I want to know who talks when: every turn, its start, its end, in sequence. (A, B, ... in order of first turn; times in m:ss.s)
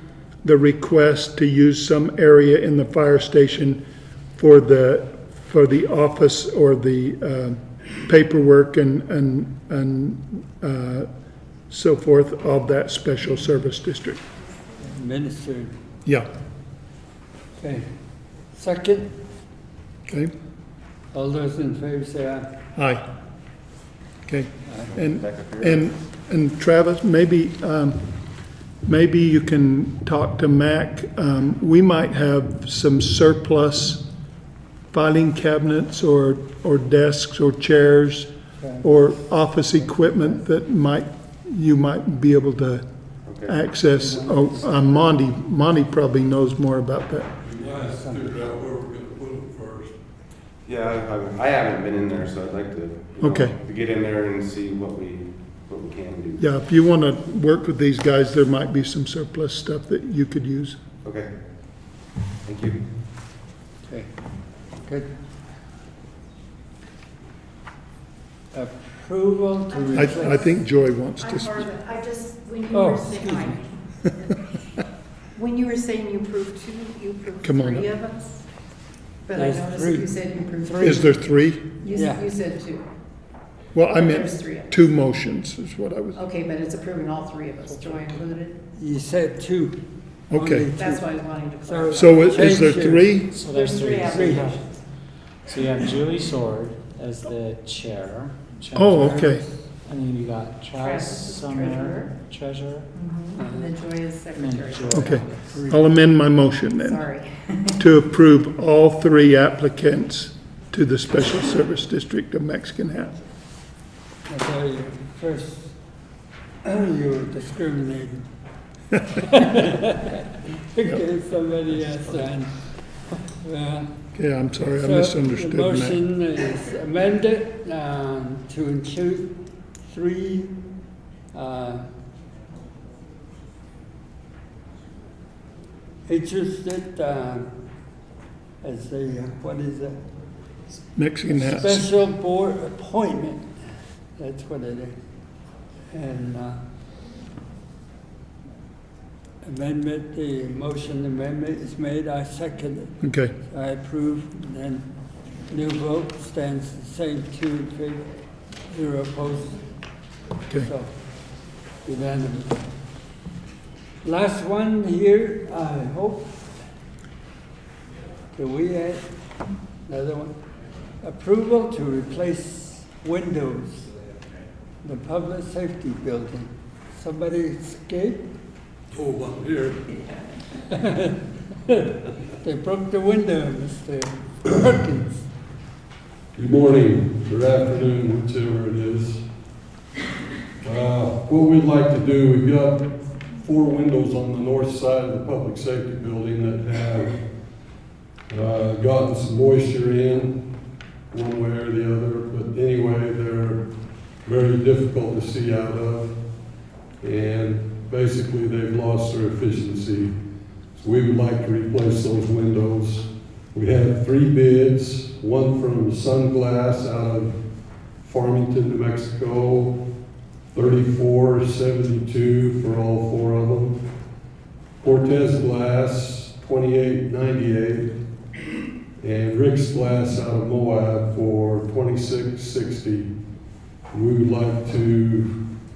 0:00.4-0:03.8 A
0:04.4-0:11.1 A
0:11.7-0:14.2 A
0:14.8-0:15.7 B
0:17.6-0:17.9 B
0:18.5-0:19.1 B
0:21.1-0:22.5 B
0:22.8-0:23.0 A
0:24.3-0:28.3 A
0:24.7-0:24.9 B
0:24.8-0:25.8 C
0:28.8-0:34.0 A
0:34.9-0:42.8 A
0:38.6-0:38.9 B
0:39.7-0:40.4 B
0:43.2-0:43.6 C
0:43.4-0:47.3 A
0:43.9-0:45.2 B
0:47.4-0:49.9 D
0:47.9-0:48.5 B
0:50.6-0:56.5 C
0:53.2-0:53.6 A
0:56.4-1:00.8 A
1:01.0-1:01.4 C
1:02.4-1:02.8 C
1:04.8-1:05.1 B
1:08.5-1:10.6 B
1:09.8-1:10.6 E
1:09.9-1:11.7 A
1:11.2-1:14.4 E
1:12.7-1:13.6 B
1:15.3-1:18.4 E
1:17.4-1:17.9 A
1:19.2-1:21.2 E
1:19.3-1:21.2 B
1:20.8-1:21.8 A
1:21.8-1:22.9 E
1:21.9-1:22.3 B
1:23.7-1:26.2 A
1:23.9-1:24.7 E
1:26.2-1:28.6 E
1:27.8-1:28.2 F
1:28.7-1:33.2 B
1:30.3-1:30.7 A
1:30.8-1:32.5 E
1:31.9-1:33.3 A
1:33.2-1:34.6 F
1:33.4-1:34.8 E
1:34.0-1:34.4 B
1:35.4-1:39.3 F
1:38.8-1:39.4 A
1:38.9-1:39.5 B
1:39.8-1:42.9 F
1:40.8-1:42.1 E
1:42.9-1:45.2 E
1:43.4-1:43.8 B
1:44.3-1:45.6 F
1:44.9-1:47.1 A
1:45.4-1:45.7 B
1:46.8-1:47.8 E
1:47.8-1:53.2 A
1:54.3-1:55.8 B
1:56.6-1:58.3 B
1:59.1-2:03.9 B
2:04.1-2:06.0 A
2:04.6-2:10.6 B
2:11.3-2:11.8 B
2:16.0-2:17.5 B
2:18.6-2:20.0 B
2:21.0-2:21.9 A
2:21.2-2:23.5 B
2:24.2-2:25.0 B
2:25.9-2:26.6 B
2:29.4-2:34.9 B
2:33.0-2:33.3 A
2:35.5-2:38.1 B
2:38.6-2:39.6 B
2:40.6-2:40.9 B
2:41.8-2:42.6 B
2:44.0-2:46.6 B
2:48.3-2:49.0 B
2:49.8-2:50.3 B
2:51.0-2:53.9 B
2:54.8-2:58.3 B
2:58.9-3:00.0 D
3:00.7-3:05.2 B
3:06.4-3:09.2 D
3:10.6-3:17.2 D
3:18.3-3:20.4 D
3:21.1-3:23.6 D
3:24.2-3:26.2 D
3:27.0-3:30.1 D
3:30.8-3:37.3 D
3:38.0-3:39.7 D
3:40.5-3:43.8 D
3:44.8-3:47.9 D
3:49.0-3:53.1 D
3:53.9-3:55.3 D